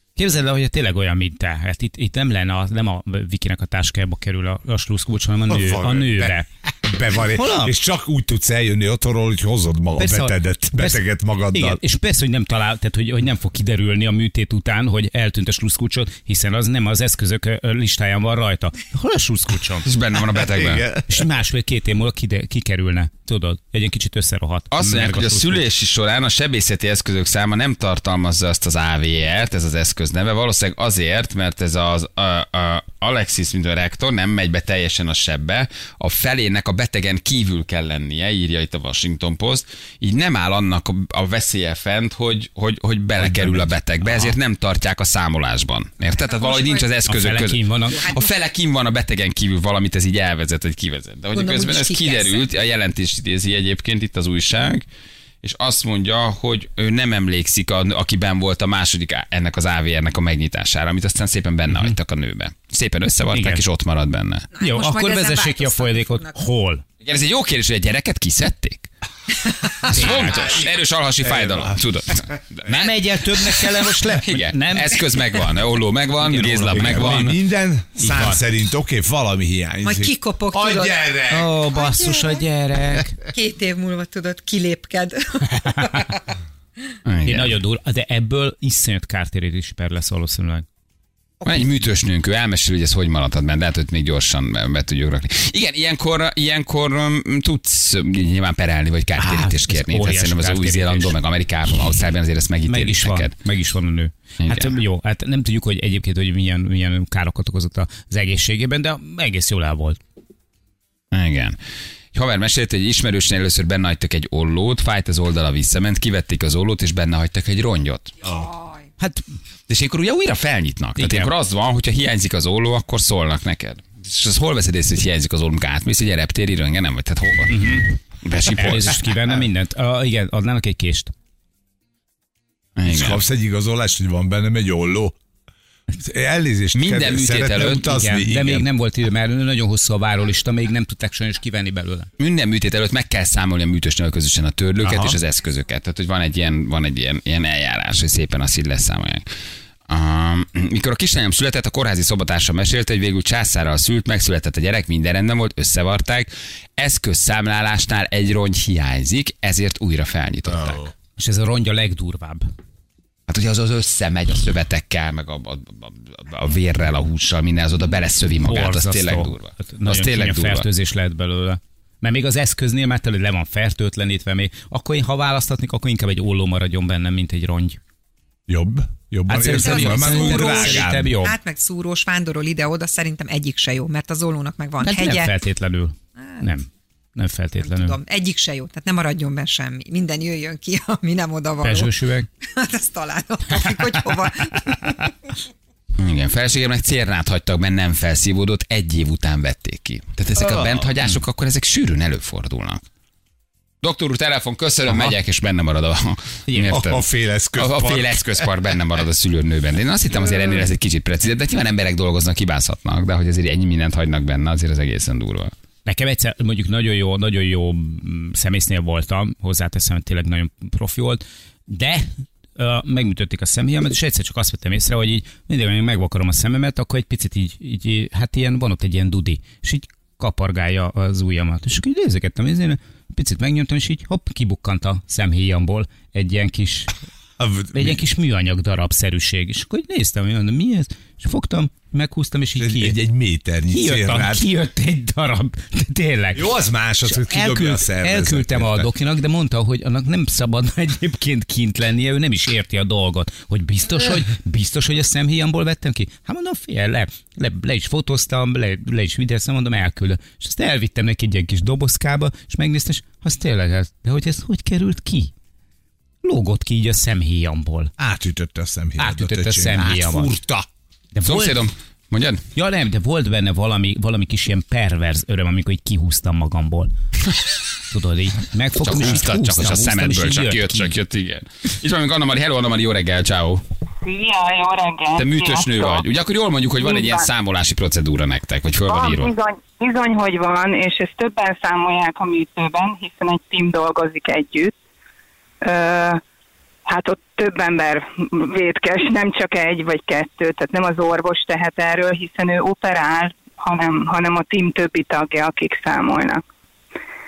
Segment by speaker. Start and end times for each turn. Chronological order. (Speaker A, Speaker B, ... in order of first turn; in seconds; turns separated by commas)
Speaker A: 0.2-6.5, Speaker B: 5.5-11.8, Speaker A: 7.2-7.7, Speaker A: 9.9-19.9, Speaker C: 19.8-20.9, Speaker B: 20.8-21.0, Speaker A: 21.0-25.6, Speaker C: 24.7-54.9, Speaker A: 43.2-44.3, Speaker D: 46.1-47.0, Speaker A: 47.0-48.0, Speaker D: 47.9-48.4, Speaker D: 51.3-52.5, Speaker C: 55.4-64.5, Speaker A: 61.7-62.0, Speaker A: 63.3-63.6, Speaker D: 64.5-66.4, Speaker A: 64.6-66.8, Speaker C: 67.0-68.9, Speaker C: 69.8-77.3, Speaker A: 69.9-70.4, Speaker A: 72.7-75.5, Speaker A: 76.2-77.3, Speaker B: 76.7-81.5, Speaker A: 78.0-78.4, Speaker D: 79.8-81.0, Speaker A: 81.3-83.2, Speaker D: 81.7-82.4, Speaker D: 83.2-86.2, Speaker C: 87.0-87.6, Speaker A: 87.2-90.6, Speaker D: 91.4-91.7, Speaker C: 91.4-103.3, Speaker A: 99.2-101.2, Speaker A: 102.7-110.0, Speaker C: 104.4-104.8, Speaker C: 111.1-111.6, Speaker C: 112.1-118.3, Speaker D: 118.2-118.9, Speaker A: 119.0-119.2, Speaker C: 119.7-127.6, Speaker A: 121.0-121.3, Speaker A: 127.5-127.9, Speaker C: 128.2-129.0, Speaker A: 128.5-131.1, Speaker C: 132.8-133.2, Speaker B: 132.9-135.2, Speaker B: 136.0-138.7, Speaker C: 136.7-137.9, Speaker A: 137.8-142.1, Speaker C: 142.2-149.2, Speaker B: 144.8-145.2, Speaker C: 149.9-160.9, Speaker A: 161.2-162.4, Speaker C: 163.3-170.7, Speaker A: 168.4-177.8, Speaker B: 178.5-181.1, Speaker A: 179.3-181.4, Speaker D: 179.5-185.3, Speaker A: 184.8-187.9, Speaker D: 186.2-186.4, Speaker D: 187.6-191.9, Speaker A: 191.6-192.3, Speaker D: 192.4-195.1, Speaker C: 196.0-202.8, Speaker B: 200.3-200.9, Speaker C: 203.8-215.5, Speaker A: 206.5-206.8, Speaker B: 206.7-208.5, Speaker A: 215.8-236.9, Speaker B: 237.4-238.0, Speaker A: 237.7-243.0, Speaker B: 242.6-244.5, Speaker A: 243.7-246.5, Speaker B: 246.3-248.9, Speaker A: 247.0-265.3, Speaker A: 266.2-267.9, Speaker B: 268.0-270.7, Speaker A: 269.0-270.3, Speaker A: 271.1-271.7, Speaker C: 271.2-272.4, Speaker A: 272.5-276.9, Speaker A: 277.9-280.9, Speaker C: 278.8-283.6, Speaker E: 284.0-286.0, Speaker C: 285.1-289.3, Speaker E: 286.8-287.3, Speaker E: 288.8-294.7, Speaker E: 295.6-296.2, Speaker E: 296.9-306.4